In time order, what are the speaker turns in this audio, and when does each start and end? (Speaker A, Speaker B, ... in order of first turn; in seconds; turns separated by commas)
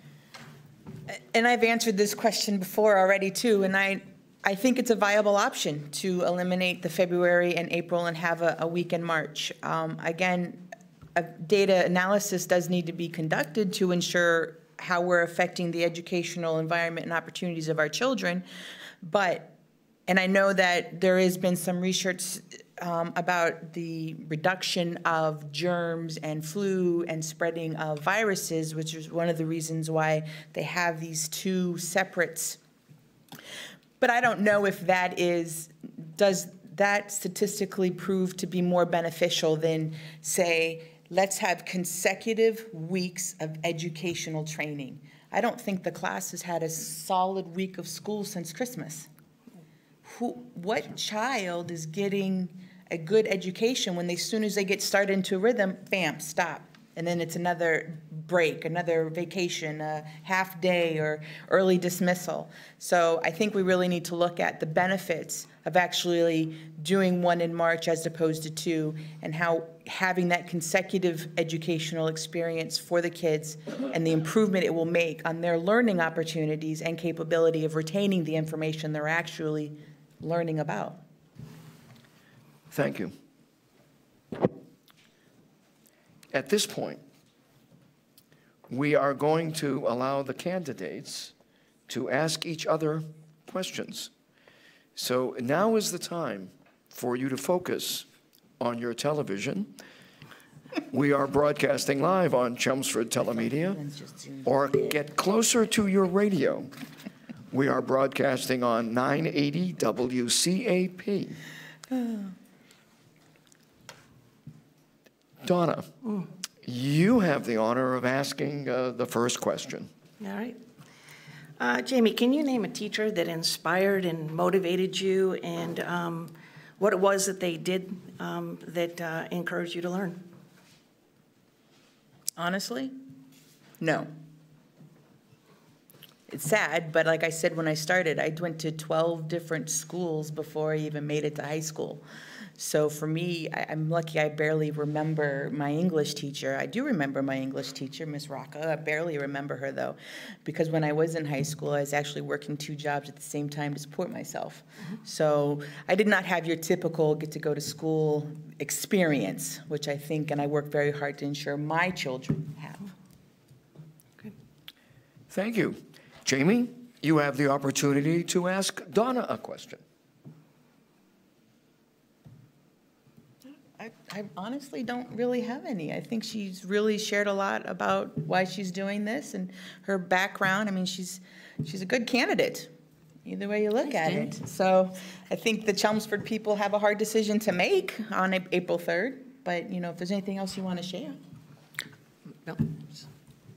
Speaker A: 1.1-18.4, Speaker A: 19.0-19.6, Speaker A: 20.1-32.6, Speaker A: 34.0-49.1, Speaker A: 50.0-81.0, Speaker B: 82.7-83.1, Speaker B: 86.3-87.0, Speaker B: 88.7-91.3, Speaker B: 91.9-94.1, Speaker B: 95.0-98.1, Speaker B: 98.6-99.7, Speaker B: 100.9-103.8, Speaker A: 103.6-104.5, Speaker B: 104.4-106.7, Speaker B: 107.5-111.4, Speaker A: 111.9-112.3, Speaker B: 115.4-115.9, Speaker B: 116.6-119.9, Speaker C: 120.2-120.6, Speaker C: 121.6-130.3, Speaker A: 132.4-133.0, Speaker A: 133.8-134.1, Speaker A: 136.3-142.0, Speaker A: 142.6-162.9, Speaker B: 165.3-169.8, Speaker A: 173.8-182.7, Speaker A: 183.2-191.2, Speaker C: 192.4-192.8